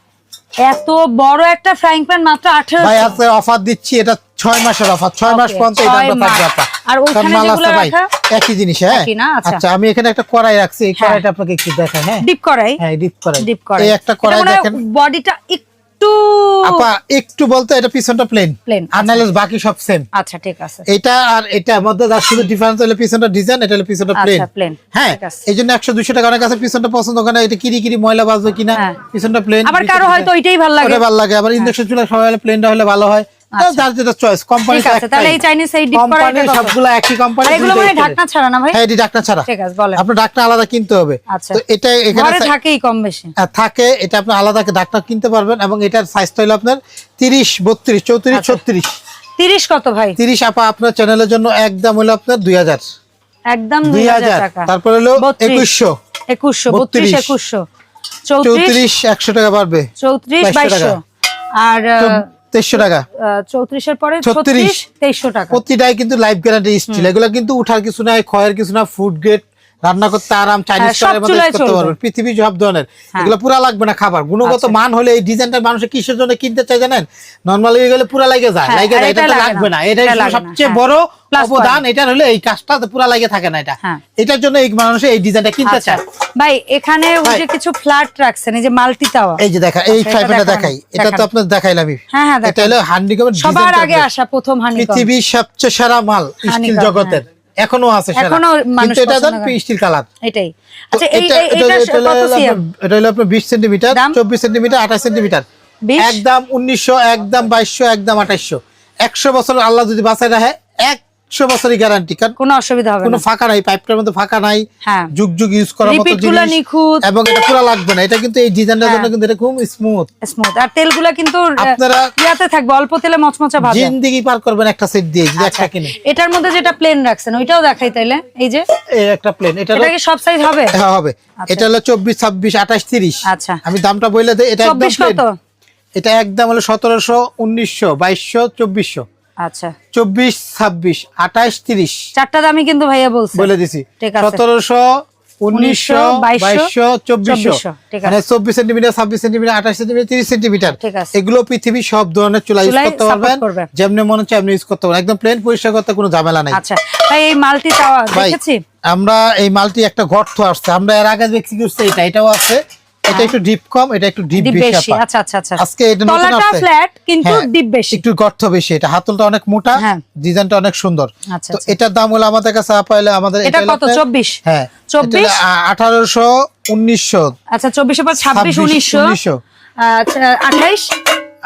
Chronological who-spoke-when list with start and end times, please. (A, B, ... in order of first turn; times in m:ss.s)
0:00.6-0:03.2 A
0:02.8-0:12.2 B
0:05.2-0:08.1 A
0:08.9-0:09.6 A
0:11.0-0:11.2 A
0:12.2-0:12.8 A
0:12.8-0:14.8 B
0:13.4-0:16.9 A
0:16.6-0:20.0 B
0:18.6-0:19.2 A
0:20.1-0:20.8 A
0:20.9-0:30.3 B
0:24.2-0:25.4 A
0:29.6-0:31.0 A
0:30.8-0:35.4 B
0:33.5-0:33.8 A
0:34.7-0:36.7 A
0:35.9-0:38.2 B
0:37.4-0:38.8 A
0:38.7-0:42.5 B
0:39.5-0:40.0 A
0:41.3-0:41.6 A
0:42.1-0:43.3 A
0:43.4-0:48.9 B
0:48.3-0:48.6 A
0:49.4-0:50.2 A
0:50.2-0:52.8 B
0:53.5-0:55.7 A
0:53.8-0:55.9 B
0:56.3-0:57.6 A
0:56.7-0:57.3 B
0:58.3-0:58.8 A
0:58.4-0:59.9 B
1:00.0-1:01.0 A
1:00.4-1:01.0 B
1:01.6-1:05.6 A
1:02.0-1:03.0 B
1:04.2-1:04.8 B
1:05.5-1:26.0 B
1:10.8-1:11.9 A
1:14.4-1:14.7 A
1:18.6-1:20.8 A
1:21.3-1:21.8 A
1:25.6-1:31.3 A
1:29.4-1:34.1 B
1:32.1-1:32.8 A
1:33.4-1:35.1 A
1:34.7-1:40.0 B
1:36.4-1:37.2 A
1:38.2-1:39.6 A
1:40.2-1:42.6 A
1:40.9-1:45.4 B
1:43.9-1:44.2 A
1:45.8-1:46.2 A
1:46.0-1:52.4 B
1:52.4-1:53.2 A
1:53.0-2:00.1 B
1:54.8-1:55.1 A
1:55.8-1:57.0 A
1:58.8-1:59.1 A
2:00.2-2:03.9 A
2:01.6-2:02.1 B
2:03.6-2:06.0 B
2:05.4-2:08.6 A
2:09.0-2:09.9 B
2:09.7-2:10.7 A
2:10.7-2:15.2 B
2:13.3-2:13.6 A
2:14.6-2:15.3 A
2:16.0-2:19.0 B
2:19.4-2:19.7 A
2:19.9-2:22.0 B
2:22.2-2:24.4 A
2:23.4-2:24.9 B
2:25.4-2:36.6 B
2:25.5-2:26.7 A
2:27.2-2:28.2 A
2:30.6-2:31.1 A
2:32.6-2:33.7 A
2:36.5-2:38.6 A
2:38.9-2:45.0 B
2:44.4-2:48.0 A
2:45.6-2:46.7 B
2:47.2-2:57.3 B
2:49.8-2:50.0 A
2:51.3-2:51.7 A
2:53.4-2:55.4 A
2:57.5-2:59.2 A
2:58.3-2:59.4 B
2:59.8-3:00.9 A